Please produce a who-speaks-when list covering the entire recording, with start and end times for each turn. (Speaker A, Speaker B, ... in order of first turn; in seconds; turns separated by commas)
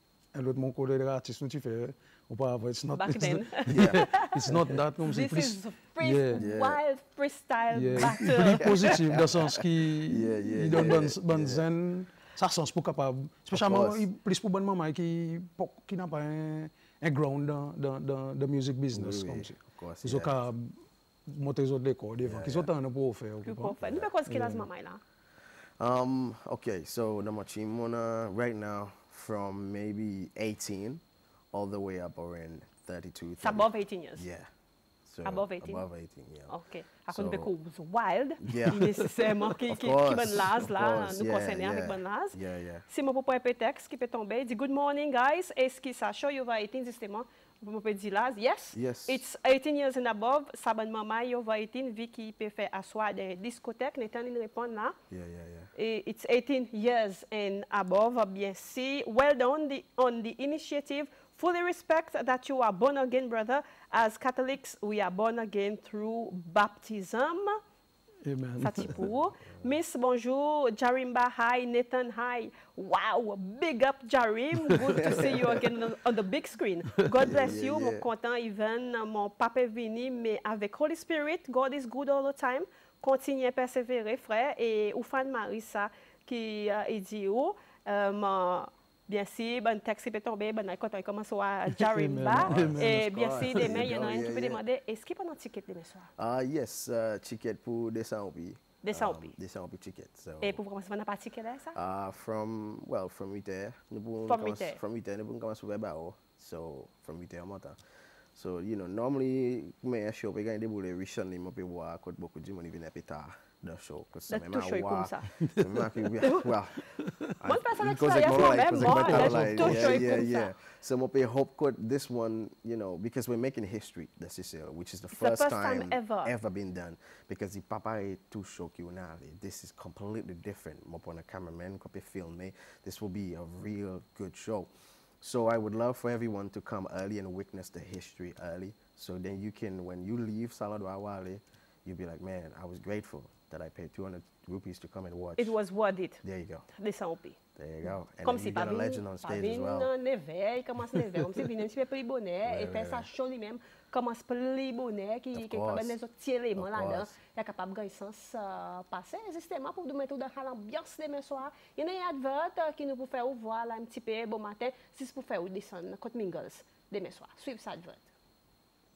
Speaker A: 0.3-6.5, Speaker B: 2.9-4.3, Speaker C: 3.7-4.8, Speaker B: 5.0-9.0, Speaker C: 6.3-6.8, Speaker A: 7.7-24.7, Speaker C: 8.7-11.7, Speaker C: 13.5-14.1, Speaker C: 18.9-20.4, Speaker C: 22.2-22.7, Speaker B: 23.4-25.0, Speaker C: 23.8-24.1, Speaker C: 25.8-34.5, Speaker B: 33.4-34.2, Speaker C: 35.1-36.5, Speaker B: 35.2-35.9, Speaker B: 36.5-42.4, Speaker C: 37.1-37.5, Speaker C: 38.4-38.8, Speaker C: 39.7-42.8, Speaker B: 42.9-55.0, Speaker C: 48.7-49.2, Speaker C: 55.1-55.7, Speaker B: 55.8-67.6, Speaker A: 68.2-69.0, Speaker B: 68.6-96.1, Speaker A: 74.7-75.2, Speaker C: 75.0-75.6, Speaker C: 77.2-78.1, Speaker A: 91.8-93.9, Speaker C: 92.5-94.6, Speaker C: 96.2-100.6, Speaker B: 98.8-99.3, Speaker B: 100.4-101.8, Speaker C: 101.8-107.8, Speaker B: 104.3-104.8, Speaker C: 108.3-116.8, Speaker B: 114.3-115.3, Speaker A: 115.4-115.7, Speaker A: 117.0-117.4, Speaker C: 117.4-134.7, Speaker B: 117.4-120.5, Speaker A: 118.8-120.2, Speaker B: 125.1-126.3, Speaker C: 135.2-145.6, Speaker B: 145.4-146.2, Speaker C: 146.2-146.7, Speaker B: 146.7-147.4, Speaker C: 147.6-149.9, Speaker B: 148.2-168.1, Speaker C: 152.4-153.1, Speaker C: 155.3-156.0, Speaker C: 156.6-157.2